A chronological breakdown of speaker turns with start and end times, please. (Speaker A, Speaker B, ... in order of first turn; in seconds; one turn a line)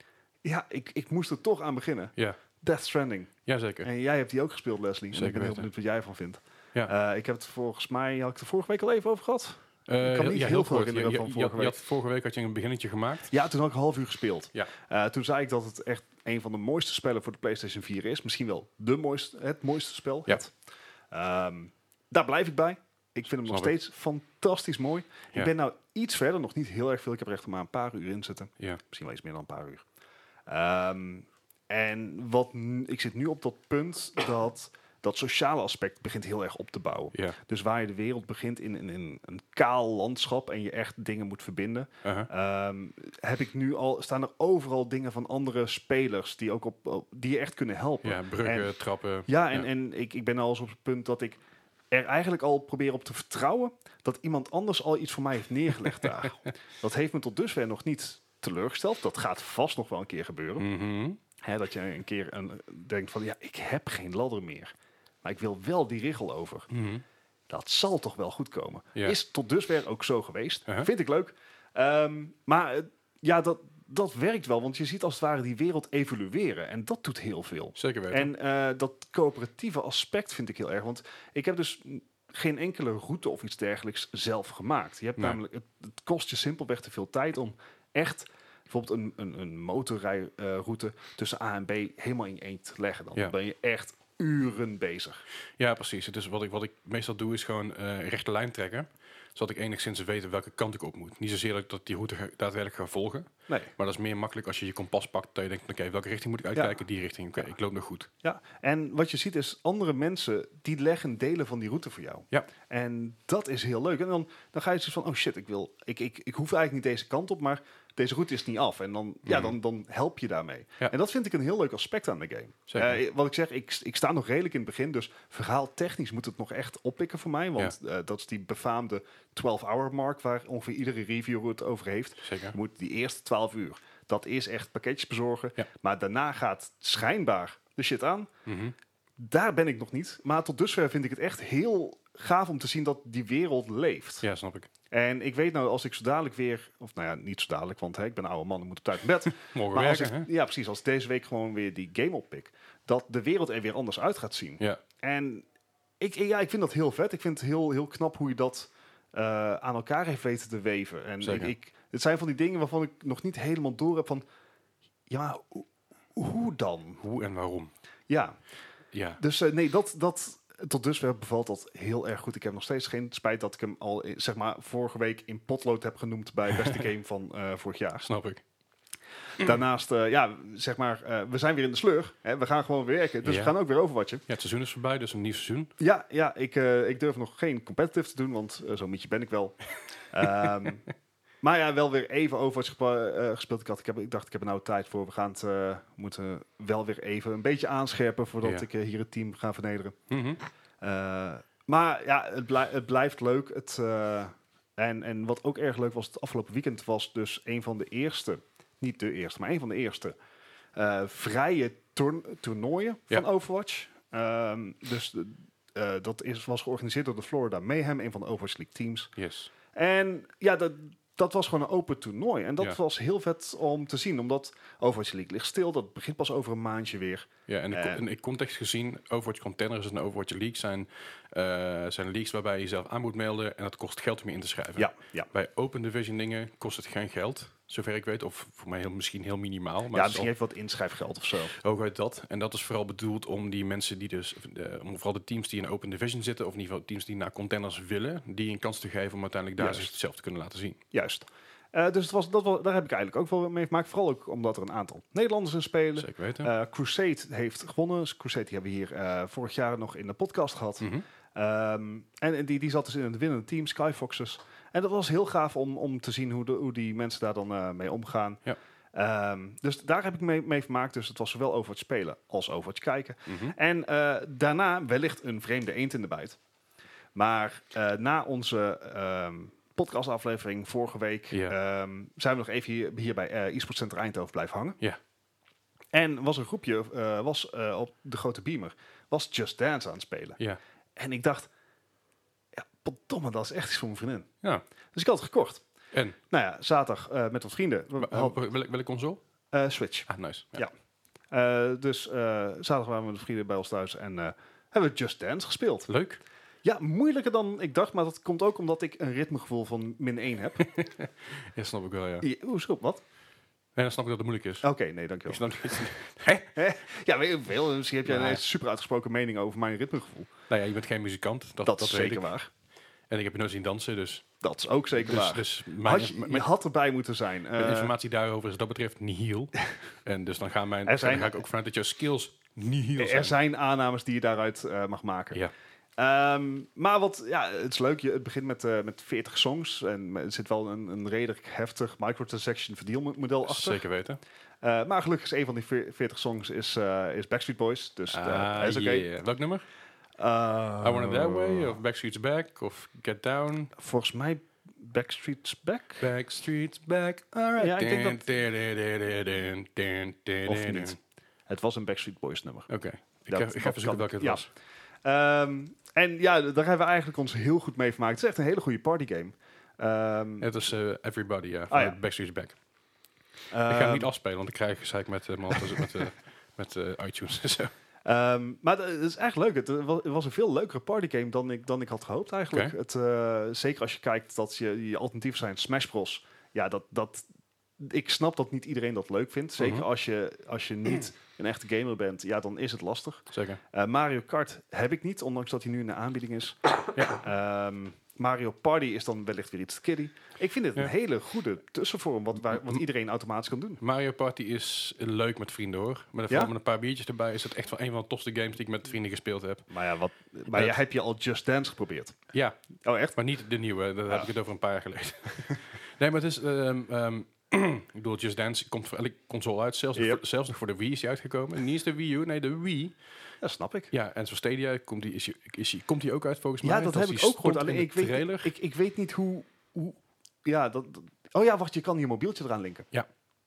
Speaker A: 0.4-11.8
Speaker B: 3.5-3.9
Speaker B: 5.1-5.7
Speaker B: 9.9-13.3
Speaker A: 13.3-20.5
Speaker A: 21.1-29.8
Speaker B: 23.5-23.7
Speaker A: 30.5-48.7
Speaker B: 42.0-42.3
Speaker B: 48.0-49.7
Speaker A: 49.3-51.4
Speaker A: 51.9-60.6
Speaker B: 60.6-61.2
Speaker A: 61.4-66.7
Speaker B: 66.7-67.0
Speaker A: 67.5-95.2
Speaker B: 77.8-78.3
Speaker B: 95.6-108.1
Speaker A: 108.2-138.3
Speaker B: 119.2-119.5
Speaker B: 122.7-123.0
Speaker B: 132.2-132.6
Speaker B: 138.4-138.7
Speaker A: 139.2-144.2
Speaker B: 144.2-144.7
Speaker A: 144.9-155.4
Speaker B: 149.5-150.3
Speaker A: 156.0-164.2
Speaker B: 161.2-161.5
Speaker A: 165.1-167.0
Speaker B: 167.0-167.7
Speaker A: 168.1-168.4
Speaker B: 168.9-169.2
Speaker A: 169.2-178.1
Speaker B: 176.5-176.8
Speaker B: 178.0-178.4
Speaker A: 179.4-184.2
Speaker B: 183.2-183.5
Speaker B: 184.3-185.7
Speaker A: 185.8-190.8
Speaker A: 191.4-200.0
Speaker B: 200.1-200.4
Speaker A: 200.8-210.2
Speaker A: 210.7-219.1
Speaker B: 219.2-219.5
Speaker A: 219.7-228.0
Speaker B: 227.5-240.3
Speaker A: 234.8-235.3
Speaker A: 239.9-241.5
Speaker B: 241.5-250.8
Speaker A: 249.6-249.9
Speaker A: 250.9-268.4
Speaker B: 256.0-256.5
Speaker B: 260.8-261.0
Speaker A: 268.9-276.4
Speaker B: 273.3-273.5
Speaker A: 277.1-284.8
Speaker B: 281.3-281.6
Speaker A: 285.9-290.4
Speaker A: 290.9-291.5
Speaker A: 292.5-294.3
Speaker A: 294.9-295.6
Speaker A: 296.3-298.4
Speaker B: 298.0-299.2
Speaker A: 299.5-300.7
Speaker B: 300.1-300.6
Speaker A: 301.3-305.9
Speaker B: 305.9-306.2
Speaker A: 306.6-310.7
Speaker B: 310.6-312.3
Speaker A: 312.2-313.0
Speaker B: 313.8-314.7
Speaker A: 314.6-315.9
Speaker B: 315.3-316.6
Speaker A: 316.5-320.3
Speaker B: 318.1-318.4
Speaker B: 320.5-322.3
Speaker A: 321.6-322.5
Speaker B: 323.1-324.2
Speaker A: 324.4-327.9
Speaker B: 325.0-326.5
Speaker B: 327.6-333.3
Speaker A: 330.9-331.4
Speaker A: 333.0-335.4
Speaker A: 336.0-343.8
Speaker B: 343.5-344.2
Speaker A: 344.6-349.1
Speaker B: 348.1-349.6
Speaker A: 350.2-351.8
Speaker B: 350.8-353.7
Speaker A: 353.8-356.0
Speaker B: 356.0-361.0
Speaker A: 357.6-358.2
Speaker A: 360.4-360.9
Speaker A: 361.5-362.7
Speaker B: 362.7-364.5
Speaker A: 363.3-364.5
Speaker A: 365.0-370.5
Speaker B: 370.4-372.6
Speaker A: 371.7-372.0
Speaker A: 373.5-374.1
Speaker B: 373.6-377.7
Speaker A: 378.0-387.2
Speaker A: 387.8-403.8
Speaker B: 389.6-389.8
Speaker B: 393.3-393.6
Speaker B: 396.9-397.2
Speaker B: 403.8-409.7
Speaker A: 409.7-412.1
Speaker A: 412.8-413.2
Speaker B: 413.1-423.0
Speaker A: 419.9-420.2
Speaker A: 423.4-423.9
Speaker B: 423.9-428.5
Speaker A: 426.6-432.9